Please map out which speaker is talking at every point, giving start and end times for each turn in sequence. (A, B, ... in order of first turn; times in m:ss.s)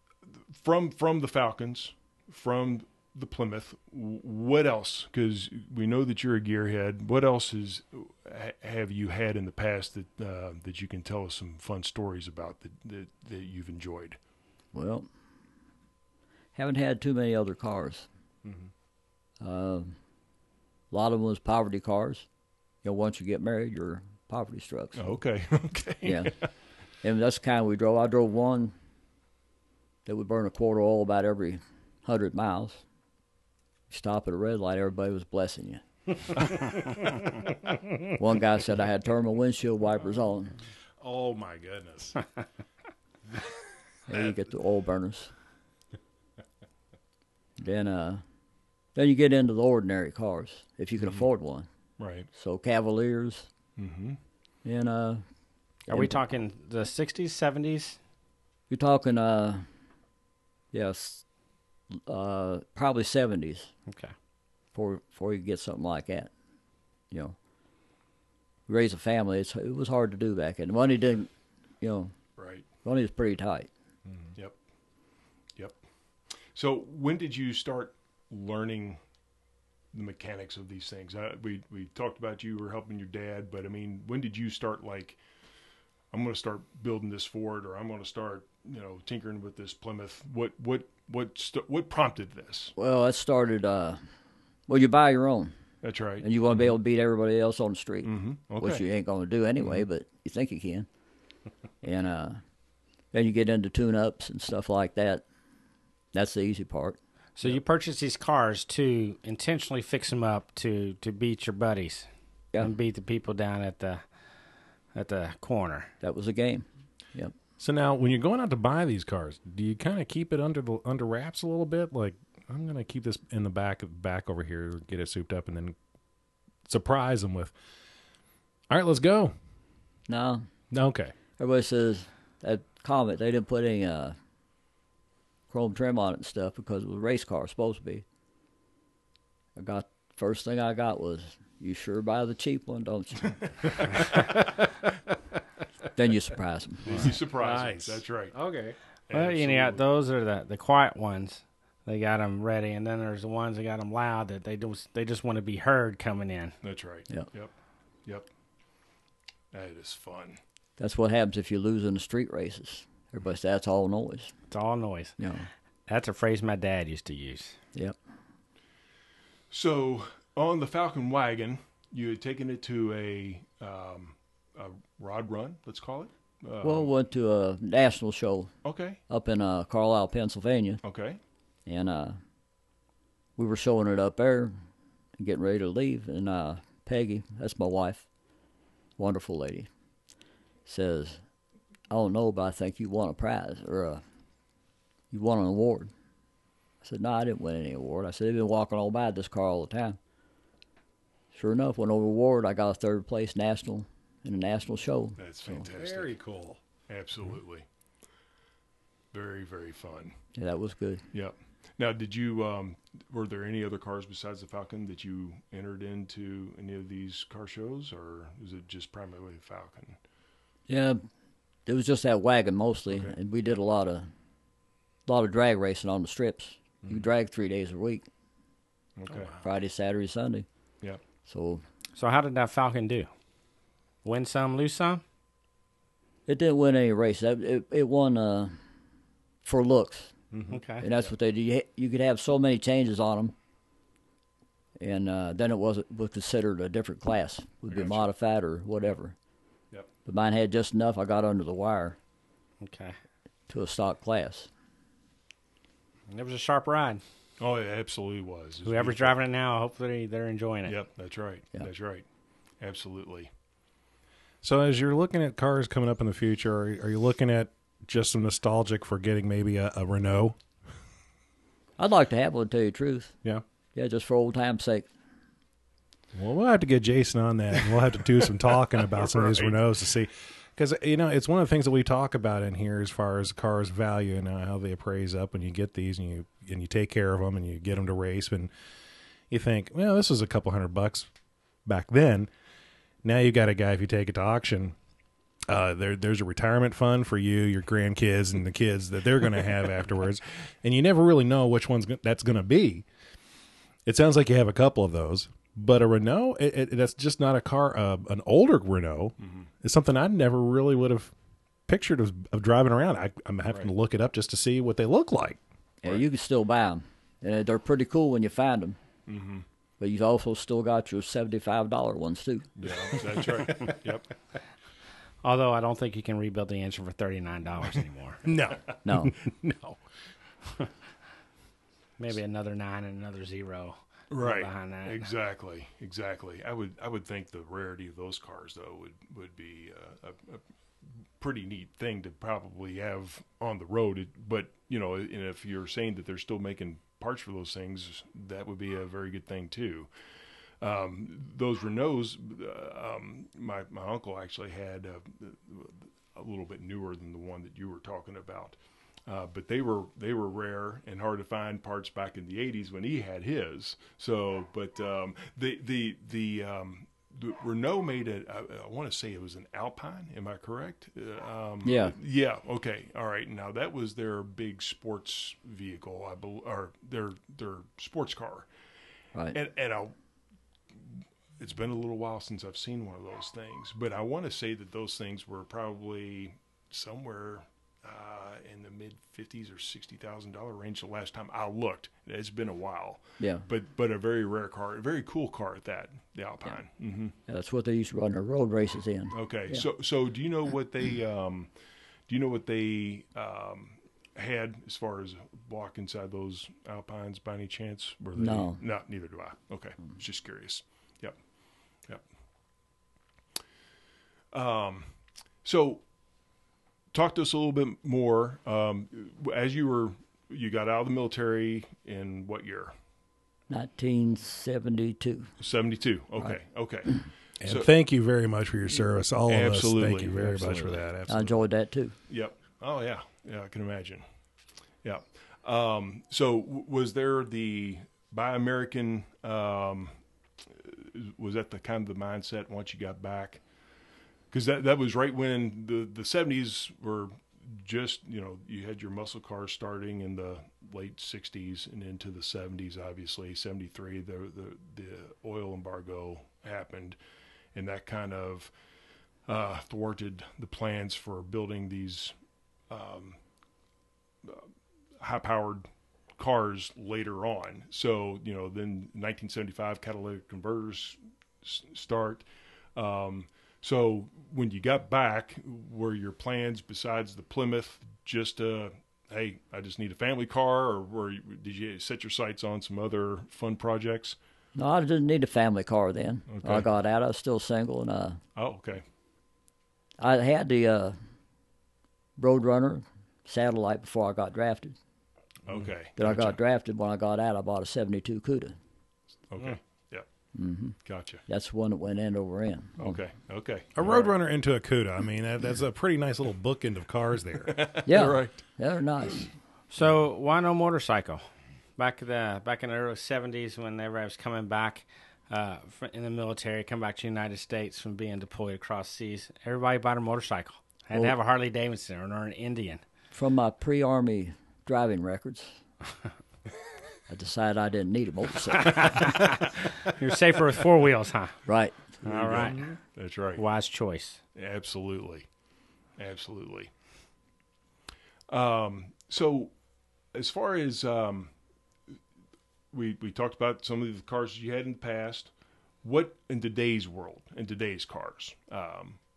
0:00.5-0:14.2 A
0:14.7-0:15.0 B
0:16.6-0:18.1 B
0:19.4-0:20.0 B
0:20.9-0:22.2 B
0:22.8-0:25.1 B
0:25.0-0:26.5 A
0:26.0-0:26.3 B
0:27.0-0:28.7 B
0:30.0-0:32.8 B
0:33.9-0:36.8 B
0:38.0-0:40.5 B
0:41.0-0:42.2 C
0:44.1-0:45.3 B
0:47.6-0:48.2 B
0:48.9-0:51.7 B
0:52.0-0:52.3 A
0:52.3-0:53.5 B
0:53.8-0:54.2 A
0:54.6-0:55.2 B
0:55.9-0:56.2 B
0:55.9-0:58.0 D
0:58.7-0:59.6 B
1:00.7-1:01.2 B
1:02.0-1:03.7 B
1:03.9-1:04.1 D
1:04.7-1:06.3 B
1:08.7-1:11.3 B
1:11.8-1:12.1 B
1:12.4-1:12.6 A
1:12.8-1:13.7 B
1:16.5-1:19.0 A
1:19.9-1:25.2 A
1:26.1-1:32.7 A
1:32.8-1:34.0 B
1:34.7-1:35.5 B
1:35.8-1:36.3 A
1:36.2-1:40.9 B
1:38.0-1:38.8 A
1:41.8-1:42.4 B
1:43.1-1:45.2 B
1:46.1-1:47.0 B
1:47.4-1:54.0 D
1:54.9-1:55.9 D
1:56.0-1:57.3 B
1:57.6-2:05.8 C
2:06.6-2:07.5 C
2:08.7-2:09.3 C
2:10.1-2:10.5 B
2:10.7-2:11.1 C
2:11.4-2:14.1 B
2:15.5-2:18.0 B
2:19.6-2:24.2 B
2:25.9-2:27.1 B
2:26.8-2:28.4 A
2:26.9-2:28.8 C
2:29.1-2:29.8 A
2:29.1-2:36.5 D
2:36.6-2:37.5 A
2:39.5-2:40.4 A
2:40.8-2:44.3 B
2:44.5-2:45.2 D
2:45.2-2:45.5 B
2:45.9-2:47.6 D
2:49.5-2:56.9 A
2:56.6-2:58.5 B
2:58.6-2:59.0 A
2:59.1-3:00.8 B
3:00.8-3:01.2 A
3:01.6-3:02.2 B
3:03.4-3:04.5 B
3:05.2-3:08.0 B
3:09.0-3:09.7 B
3:10.6-3:11.2 B
3:11.9-3:14.0 B
3:15.1-3:15.9 B
3:16.8-3:20.0 B
3:21.3-3:25.6 B
3:25.2-3:26.1 A
3:25.7-3:26.6 C
3:26.9-3:27.6 A
3:29.1-3:30.1 A
3:30.4-3:31.0 B
3:31.1-3:40.0 A
3:40.7-3:41.0 B
3:41.6-3:44.1 B
3:45.1-3:48.0 B
3:49.0-3:49.4 A
3:49.4-3:50.4 B
3:51.3-3:51.6 B
3:52.0-3:53.1 D
3:54.0-3:55.0 D
3:56.3-3:58.6 B
3:59.4-4:00.1 B
4:00.5-4:00.8 D
4:00.8-4:03.3 B
4:04.8-4:09.1 B
4:07.7-4:08.0 A
4:10.0-4:12.0 B
4:12.6-4:13.0 D
4:13.5-4:14.5 B
4:16.1-4:17.0 D
4:17.4-4:19.2 A
4:18.6-4:20.8 D
4:20.7-4:22.0 A
4:22.6-4:23.3 A
4:24.4-4:30.4 C
4:31.8-4:33.1 B
4:33.7-4:34.9 B
4:36.1-4:48.5 C
4:38.9-4:39.6 A
4:49.3-4:51.1 C
4:51.6-4:52.3 C
4:53.0-4:54.8 C
4:55.5-5:02.8 C
5:03.8-5:11.1 C
5:09.2-5:09.5 A
5:11.7-5:15.4 C
5:15.8-5:18.8 B
5:19.1-5:19.4 A
5:19.8-5:23.0 B
5:22.6-5:24.1 A
5:25.2-5:28.2 D
5:28.2-5:29.8 C
5:28.8-5:29.2 B
5:32.0-5:35.0 D
5:34.1-5:40.4 A
5:41.2-5:49.9 A
5:50.6-5:58.6 A
5:59.1-6:18.5 A
6:11.6-6:12.0 B
6:19.3-6:19.9 A
6:20.8-6:37.1 A
6:33.2-6:33.4 B
6:37.3-6:39.6 B
6:39.1-6:41.5 A
6:42.1-6:51.2 A
6:48.2-6:48.6 B
6:54.3-6:54.9 A
6:55.4-6:55.8 A
6:56.9-7:02.7 A
7:03.5-7:05.3 B
7:05.4-7:07.7 A
7:07.4-7:11.4 C
7:09.3-7:10.8 A
7:11.1-7:11.9 B
7:12.1-7:14.0 A
7:14.8-7:23.4 A
7:24.3-7:37.0 A
7:37.5-7:38.5 A
7:39.2-7:42.1 A
7:42.7-7:43.2 A
7:45.0-8:04.2 A
8:04.6-8:08.2 B
8:06.3-8:06.7 A
8:08.4-8:08.8 A
8:10.0-8:11.0 B
8:12.2-8:14.8 B
8:15.5-8:16.4 A
8:16.0-8:18.5 B
8:19.3-8:20.0 A
8:20.3-8:23.0 B
8:20.8-8:21.2 A
8:22.8-8:24.1 A
8:23.8-8:27.7 C
8:27.4-8:28.4 A
8:27.8-8:29.3 B
8:29.7-8:31.2 D
8:31.8-8:42.8 D
8:43.1-8:45.6 B
8:47.1-8:49.0 B
8:48.6-8:51.4 D
8:51.4-8:52.0 B
8:52.0-8:52.7 D
8:52.0-8:53.4 A
8:53.4-8:54.2 D
8:54.3-8:55.2 A
8:56.0-8:56.7 A
8:58.3-8:59.5 A
9:00.1-9:01.3 A
9:02.7-9:05.3 A
9:05.8-9:09.0 A